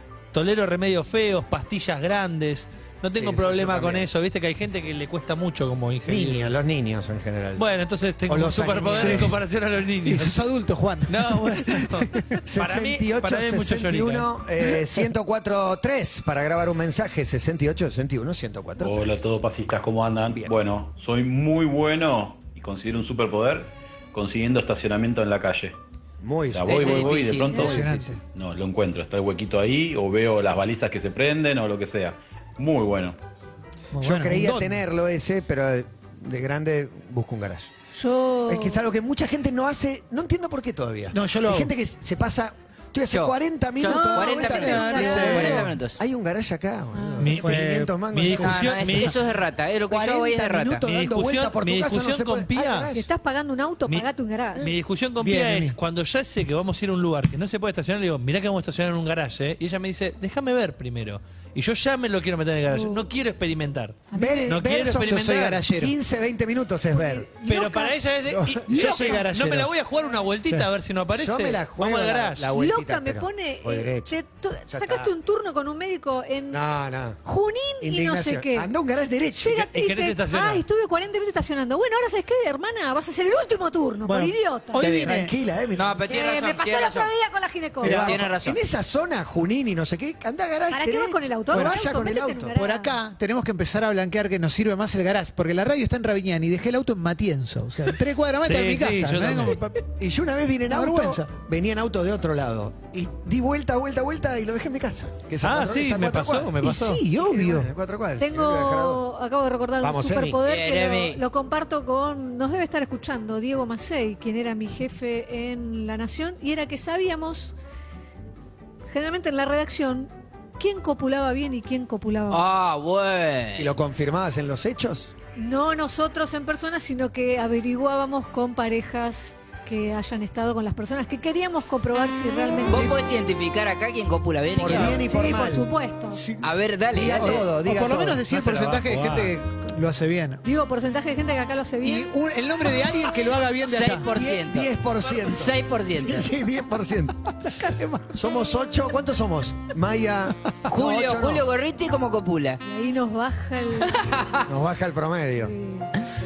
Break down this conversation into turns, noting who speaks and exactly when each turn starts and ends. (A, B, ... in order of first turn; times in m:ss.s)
0:00.3-0:06.5 A
0:03.2-0:04.1 B
0:06.1-0:07.6 B
0:07.6-0:10.4 A
0:08.3-0:09.4 B
0:08.8-0:09.4 C
0:10.0-0:12.3 C
0:11.1-0:14.3 A
0:12.4-0:19.4 B
0:18.8-0:25.8 D
0:20.3-0:20.6 B
0:26.2-0:27.0 B
0:26.5-0:33.2 D
0:26.7-0:27.8 E
0:27.6-0:28.2 C
0:33.9-0:34.8 C
0:34.0-0:37.7 B
0:38.0-0:38.8 F
0:38.5-0:49.1 B
0:41.1-0:41.7 C
0:43.1-0:46.0 E
0:43.8-0:45.6 F
0:45.0-0:45.7 A
0:47.0-0:47.4 F
0:47.2-0:48.5 C
0:47.2-0:49.2 A
0:48.4-0:50.8 E
0:49.9-0:53.1 B
0:50.9-0:52.9 A
0:52.9-0:54.7 F
0:53.9-1:05.6 A
0:55.2-0:55.8 C
1:02.7-1:03.0 F
1:04.1-1:04.6 F
1:04.1-1:07.3 B
1:05.0-1:05.9 C
1:06.9-1:08.0 F
1:07.4-1:12.5 A
1:08.3-1:09.0 B
1:08.7-1:09.7 C
1:11.1-1:14.2 B
1:12.5-1:16.6 F
1:14.7-1:15.1 B
1:16.5-1:17.2 B
1:17.2-1:18.7 F
1:17.8-1:19.6 B
1:19.4-1:24.9 F
1:19.6-1:20.6 A
1:24.0-1:25.3 C
1:24.8-1:26.2 B
1:25.7-1:27.1 E
1:26.1-1:28.2 F
1:27.8-1:32.6 B
1:27.8-1:28.6 E
1:30.7-1:33.0 F
1:31.5-1:31.9 C
1:32.6-1:39.8 C
1:38.4-1:39.6 A
1:40.0-1:46.6 B
1:40.7-1:41.3 C
1:45.4-1:47.0 A
1:46.6-1:47.7 C
1:47.2-1:49.0 B
1:48.2-1:57.5 F
1:49.8-1:50.4 B
1:50.4-1:51.2 E
1:58.9-2:02.4 F
2:02.3-2:03.8 E
2:03.6-2:05.1 B
2:05.4-2:12.9 F
2:12.7-2:15.0 E
2:14.6-2:15.7 B
2:14.6-2:16.2 F
2:16.1-2:16.5 C
2:16.4-2:17.5 E
2:16.9-2:18.4 B
2:17.1-2:20.4 C
2:18.3-2:19.3 A
2:20.4-2:22.1 F
2:21.8-2:24.1 C
2:23.6-2:26.3 E
2:24.1-2:27.6 B
2:27.5-2:28.2 C
2:28.1-2:31.5 B
2:30.7-2:32.6 E
2:32.6-2:34.2 F
2:33.9-2:34.4 E
2:34.5-2:35.5 B
2:35.4-2:35.9 F